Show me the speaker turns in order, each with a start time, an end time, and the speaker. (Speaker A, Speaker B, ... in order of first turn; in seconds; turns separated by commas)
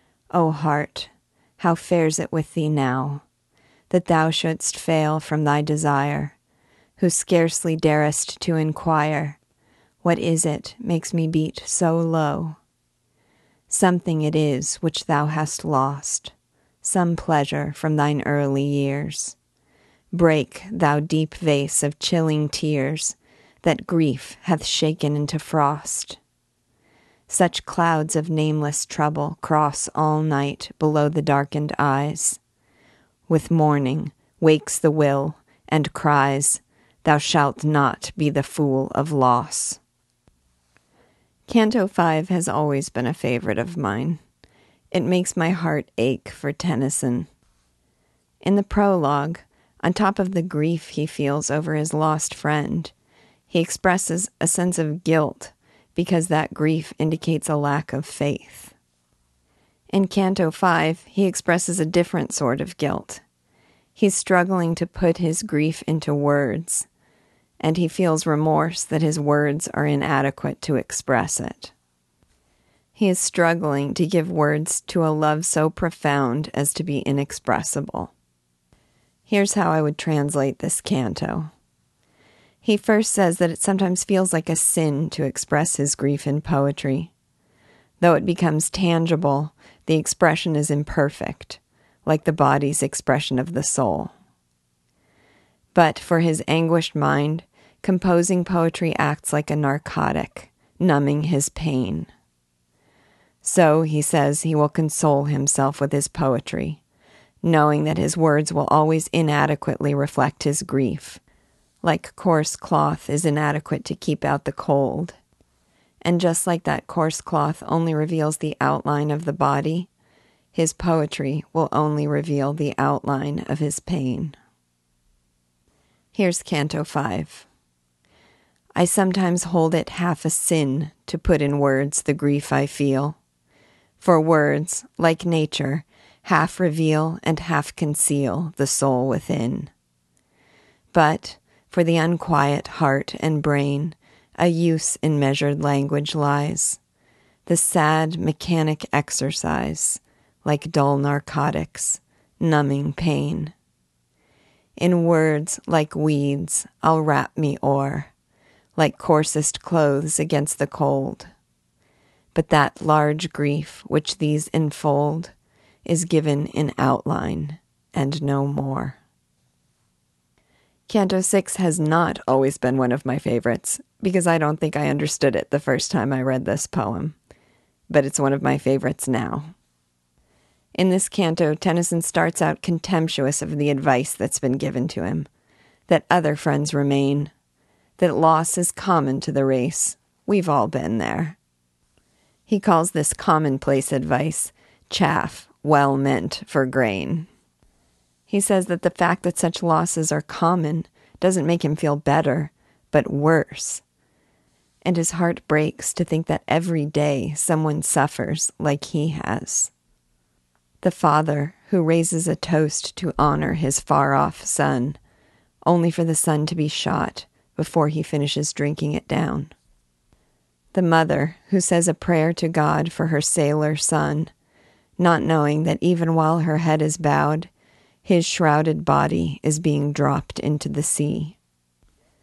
Speaker A: 0.3-3.2, Speaker A: 3.9-6.3, Speaker A: 7.0-9.4, Speaker A: 10.0-12.6, Speaker A: 13.7-19.4, Speaker A: 20.1-26.2, Speaker A: 27.3-32.4, Speaker A: 33.3-39.8, Speaker A: 41.5-44.2, Speaker A: 44.9-47.3, Speaker A: 48.4-52.9, Speaker A: 53.5-58.7, Speaker A: 59.9-63.2, Speaker A: 63.9-66.9, Speaker A: 67.6-71.7, Speaker A: 73.0-78.1, Speaker A: 79.3-81.5, Speaker A: 82.6-87.1, Speaker A: 88.0-94.1, Speaker A: 95.7-102.1, Speaker A: 103.4-106.8, Speaker A: 107.4-111.2, Speaker A: 111.8-115.2, Speaker A: 116.0-119.9, Speaker A: 120.5-124.3, Speaker A: 126.1-127.5, Speaker A: 128.8-133.2, Speaker A: 134.0-139.7, Speaker A: 140.9-146.8, Speaker A: 147.4-153.5, Speaker A: 154.8-158.1, Speaker A: 158.8-161.3, Speaker A: 162.3-165.3, Speaker A: 165.8-169.0, Speaker A: 170.9-177.2, Speaker A: 177.9-179.5, Speaker A: 180.7-185.3, Speaker A: 185.9-187.3, Speaker A: 188.0-191.4, Speaker A: 192.5-197.3, Speaker A: 198.3-203.8, Speaker A: 204.8-209.7, Speaker A: 210.8-215.0, Speaker A: 215.6-219.5, Speaker A: 220.7-224.3, Speaker A: 225.0-227.5, Speaker A: 228.0-231.3